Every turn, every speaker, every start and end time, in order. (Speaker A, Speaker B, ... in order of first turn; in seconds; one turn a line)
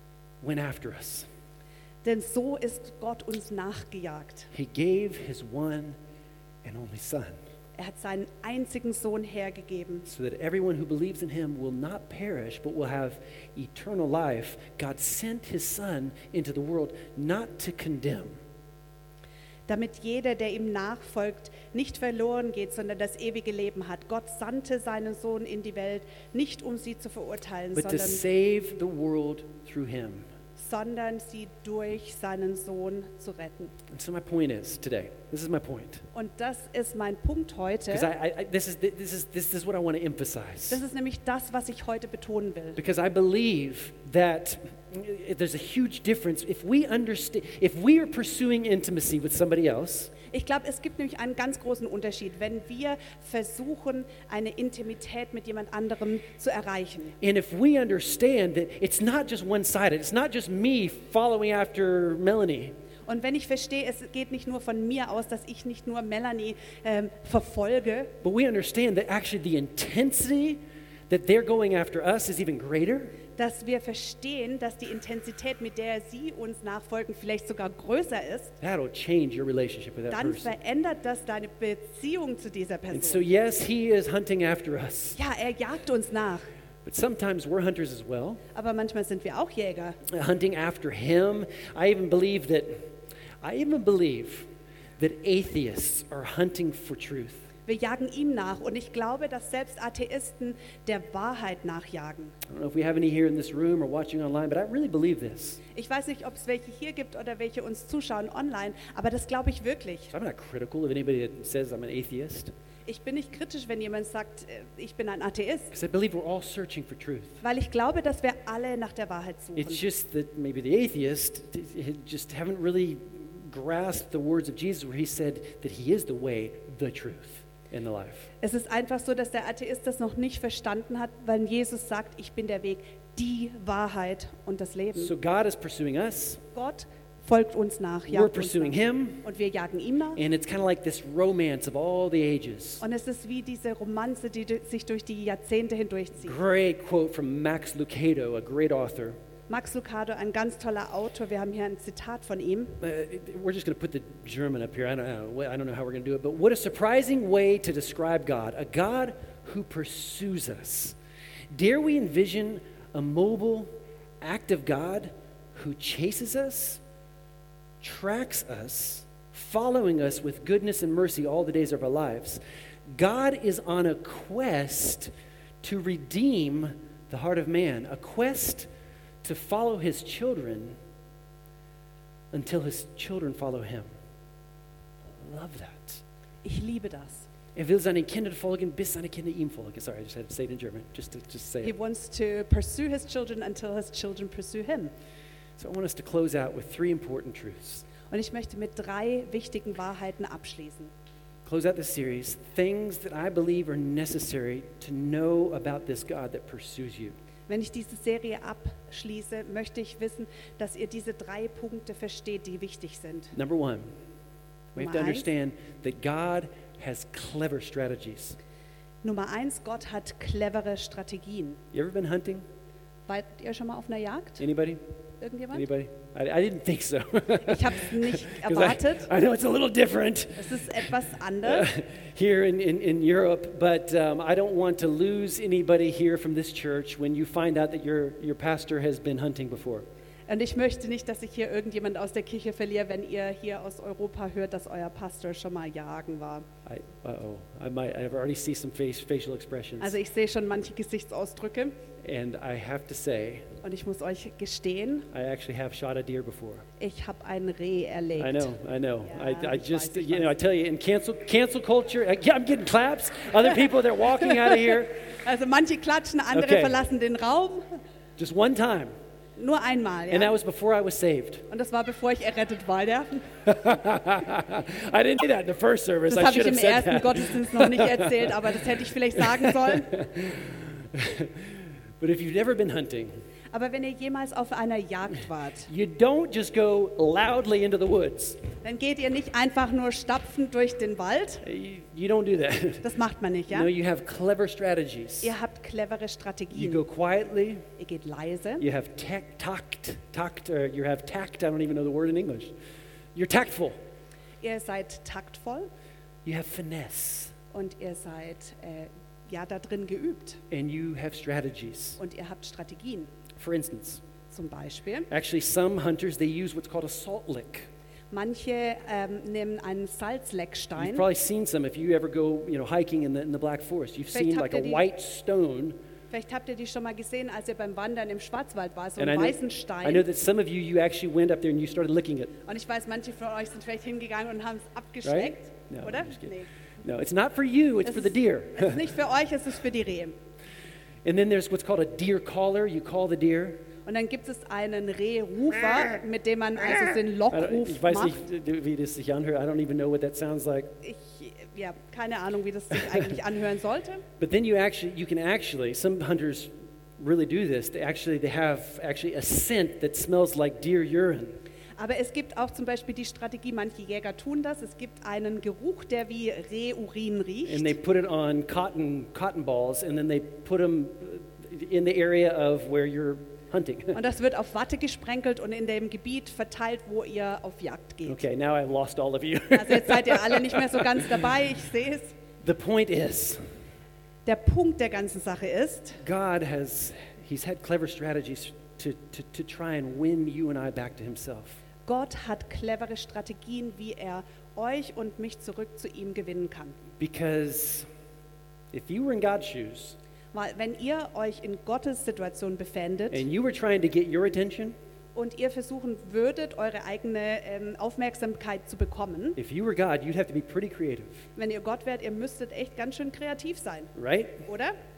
Speaker A: 0.4-1.3
Speaker B: 2.0-4.5
Speaker A: 4.5-6.0
Speaker A: 6.6-7.4
Speaker B: 7.8-10.1
Speaker A: 10.1-18.4
Speaker B: 19.7-28.2
Speaker A: 27.7-30.3
Speaker B: 30.6-33.7
Speaker A: 33.9-36.0
Speaker B: 36.1-38.1
Speaker A: 37.9-40.8
Speaker B: 40.7-42.8
Speaker A: 42.8-50.1
Speaker B: 50.3-57.1
Speaker A: 57.2-62.7
Speaker B: 63.1-68.1
Speaker A: 68.2-73.2
Speaker B: 73.4-78.5
Speaker A: 78.6-80.5
Speaker B: 80.1-83.3
Speaker A: 82.9-85.2
Speaker B: 85.2-86.5
Speaker A: 86.8-88.4
Speaker B: 88.5-90.0
Speaker A: 90.1-97.5
Speaker B: 97.7-102.3
Speaker A: 102.5-105.6
Speaker B: 105.7-110.1
Speaker A: 110.1-112.5
Speaker B: 112.9-115.7
Speaker A: 115.7-117.4
Speaker B: 117.4-119.8
Speaker A: 119.5-128.3
Speaker B: 128.4-135.1
Speaker A: 134.9-136.4
Speaker B: 136.5-140.2
Speaker A: 138.1-139.2
Speaker A: 140.2-142.8
Speaker B: 142.8-146.4
Speaker A: 146.2-149.2
Speaker B: 149.5-152.8
Speaker A: 152.8-160.9
Speaker A: 161.5-166.8
Speaker A: 167.8-175.1
Speaker A: 175.6-178.7
Speaker A: 179.2-180.8
Speaker A: 182.3-183.9
Speaker A: 185.2-186.0
Speaker B: 186.4-187.3
Speaker A: 187.5-191.7
Speaker B: 191.6-194.9
Speaker A: 195.6-197.8
Speaker B: 198.1-200.9
Speaker A: 201.4-207.2
Speaker B: 207.5-213.3
Speaker A: 213.3-213.9
Speaker A: 214.7-218.4
Speaker B: 214.8-215.2
Speaker B: 219.0-221.6
Speaker A: 221.7-222.4
Speaker B: 223.1-224.4
Speaker A: 224.4-224.8
Speaker B: 225.2-225.7
Speaker A: 225.5-239.8
Speaker B: 227.4-229.1
Speaker B: 230.3-231.7
Speaker B: 240.3-246.4
Speaker A: 246.7-250.0
Speaker B: 249.8-251.7
Speaker A: 252.0-253.6
Speaker B: 253.6-255.1
Speaker A: 255.1-256.6
Speaker B: 256.8-258.5
Speaker A: 258.2-265.0
Speaker B: 259.0-260.4
Speaker B: 264.2-267.8
Speaker A: 266.3-266.8
Speaker A: 268.2-268.9
Speaker B: 269.4-270.4
Speaker A: 270.1-271.4
Speaker B: 271.5-273.3
Speaker A: 273.4-278.6
Speaker B: 276.1-280.0
Speaker A: 279.1-283.1
Speaker B: 283.5-285.7
Speaker A: 285.7-288.4
Speaker B: 288.6-291.4
Speaker A: 291.4-292.8
Speaker B: 292.8-293.7
Speaker A: 293.5-295.3
Speaker B: 295.2-296.8
Speaker A: 296.5-297.6
Speaker B: 297.8-298.6
Speaker A: 298.6-302.5
Speaker A: 303.1-303.7
Speaker B: 304.4-305.7
Speaker A: 306.2-307.3
Speaker B: 307.5-310.4
Speaker A: 310.5-312.0
Speaker B: 312.0-313.1
Speaker A: 313.4-314.0
Speaker B: 314.3-315.1
Speaker A: 315.1-317.7
Speaker B: 318.1-321.1
Speaker A: 320.8-325.8
Speaker B: 324.1-324.8
Speaker B: 326.1-330.1
Speaker A: 329.0-332.3
Speaker B: 332.4-336.5
Speaker A: 335.0-338.9
Speaker B: 337.9-340.1
Speaker A: 341.0-343.6
Speaker B: 343.9-348.2
Speaker A: 347.3-350.8
Speaker B: 350.8-354.0
Speaker A: 352.9-353.1
Speaker A: 354.2-361.4
Speaker B: 361.8-367.8
Speaker A: 367.4-374.0
Speaker B: 373.9-378.2
Speaker A: 378.1-381.2
Speaker B: 379.5-382.1
Speaker A: 382.4-383.4
Speaker B: 384.2-386.0
Speaker A: 386.0-391.6
Speaker B: 391.9-396.8
Speaker A: 397.0-397.9
Speaker A: 398.7-400.0
Speaker B: 400.3-403.2
Speaker A: 403.1-404.8
Speaker B: 405.1-409.4
Speaker A: 409.4-411.3
Speaker B: 411.4-413.9
Speaker A: 413.9-414.4
Speaker B: 414.4-414.7